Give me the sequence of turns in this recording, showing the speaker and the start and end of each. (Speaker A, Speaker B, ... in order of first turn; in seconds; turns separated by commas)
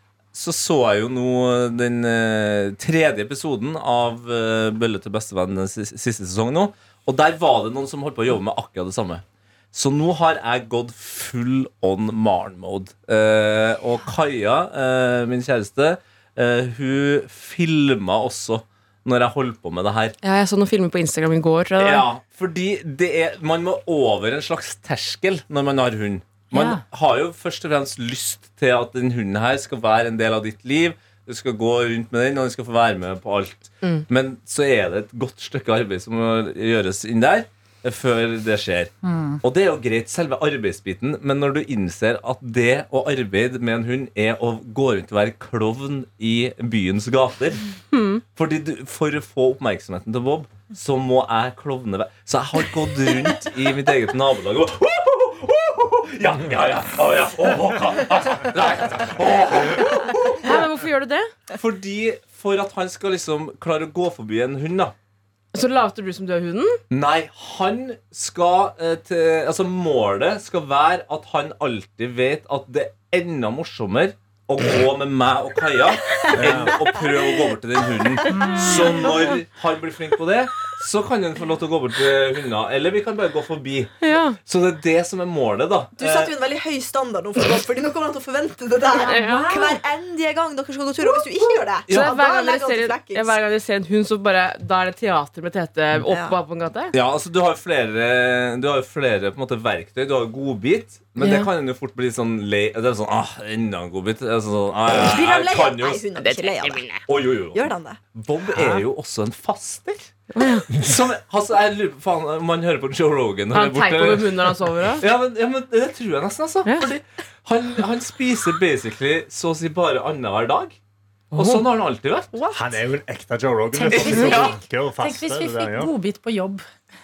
Speaker A: 0.3-20.2, Speaker B: 20.2-22.1, Speaker A: 21.8-38.9, Speaker C: 26.5-26.8, Speaker C: 39.0-39.4, Speaker A: 39.4-47.6, Speaker B: 47.9-48.2, Speaker A: 48.3-60.6, Speaker B: 60.4-61.3, Speaker A: 61.5-64.9, Speaker B: 65.5-66.8, Speaker A: 66.9-83.9, Speaker D: 76.1-77.5, Speaker E: 76.4-76.8, Speaker D: 78.2-78.8, Speaker C: 78.3-79.2, Speaker B: 84.0-84.4, Speaker A: 84.5-86.3, Speaker D: 86.0-93.3, Speaker C: 88.9-89.8, Speaker B: 89.0-89.5, Speaker B: 91.9-96.9, Speaker D: 96.1-96.4, Speaker A: 96.9-106.1, Speaker B: 101.2-101.5, Speaker D: 105.0-107.0, Speaker B: 106.2-107.0, Speaker A: 107.1-110.1, Speaker D: 107.5-108.0, Speaker B: 110.3-110.7, Speaker A: 110.7-120.8, Speaker B: 113.5-115.0, Speaker B: 121.3-121.6, Speaker A: 121.3-122.3, Speaker D: 122.3-122.7, Speaker E: 122.5-125.9, Speaker C: 123.7-126.7, Speaker A: 124.0-124.5